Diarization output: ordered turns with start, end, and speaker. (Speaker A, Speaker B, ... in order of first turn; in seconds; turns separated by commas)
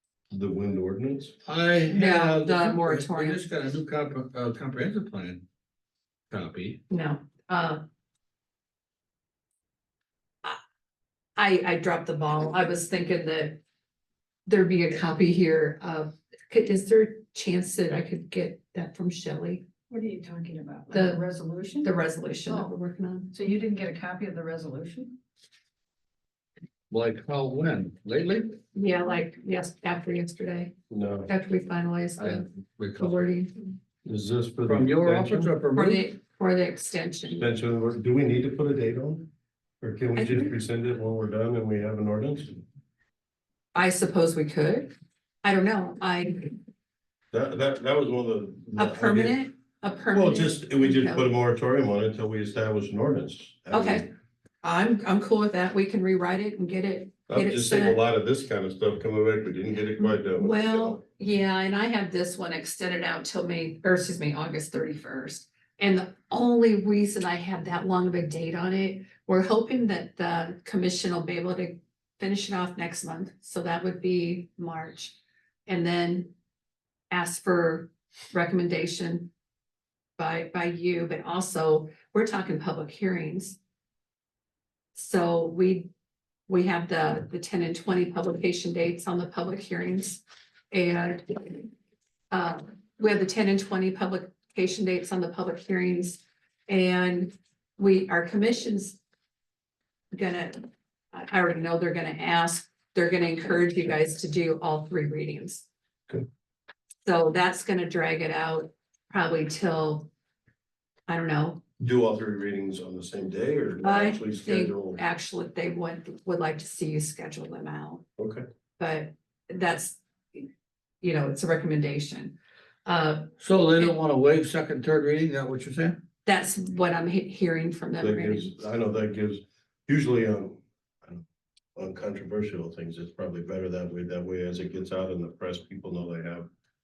Speaker A: 0.3-1.3, Speaker B: 1.4-5.4, Speaker C: 1.9-3.4, Speaker B: 6.3-6.8, Speaker C: 6.9-7.8, Speaker C: 11.4-13.6, Speaker C: 14.5-19.6, Speaker D: 19.9-21.9, Speaker C: 20.9-21.2, Speaker C: 21.8-23.3, Speaker D: 22.5-22.7, Speaker D: 23.3-25.2, Speaker B: 26.9-28.6, Speaker C: 28.7-30.7, Speaker A: 30.9-31.3, Speaker C: 31.3-33.5, Speaker B: 32.2-33.2, Speaker A: 34.0-35.5, Speaker B: 34.7-36.1, Speaker C: 35.8-37.5, Speaker A: 37.3-39.3, Speaker A: 39.8-42.6, Speaker C: 40.2-40.5, Speaker C: 43.8-46.5, Speaker A: 47.3-49.4, Speaker C: 48.8-51.3, Speaker A: 50.1-54.1, Speaker C: 53.7-54.0, Speaker C: 54.6-58.0, Speaker A: 57.3-61.0, Speaker C: 60.0-75.2, Speaker C: 75.7-76.3, Speaker C: 77.1-79.3, Speaker C: 80.2-83.6, Speaker C: 85.0-85.9, Speaker C: 86.5-91.7, Speaker C: 92.3-99.0, Speaker C: 100.1-105.7, Speaker C: 107.0-110.1, Speaker C: 111.1-111.6, Speaker A: 111.8-115.0, Speaker C: 113.8-118.0, Speaker A: 118.2-118.4, Speaker C: 118.8-120.5, Speaker C: 121.0-123.9, Speaker B: 123.4-126.0, Speaker C: 126.2-128.5, Speaker A: 128.0-131.2, Speaker A: 131.8-136.5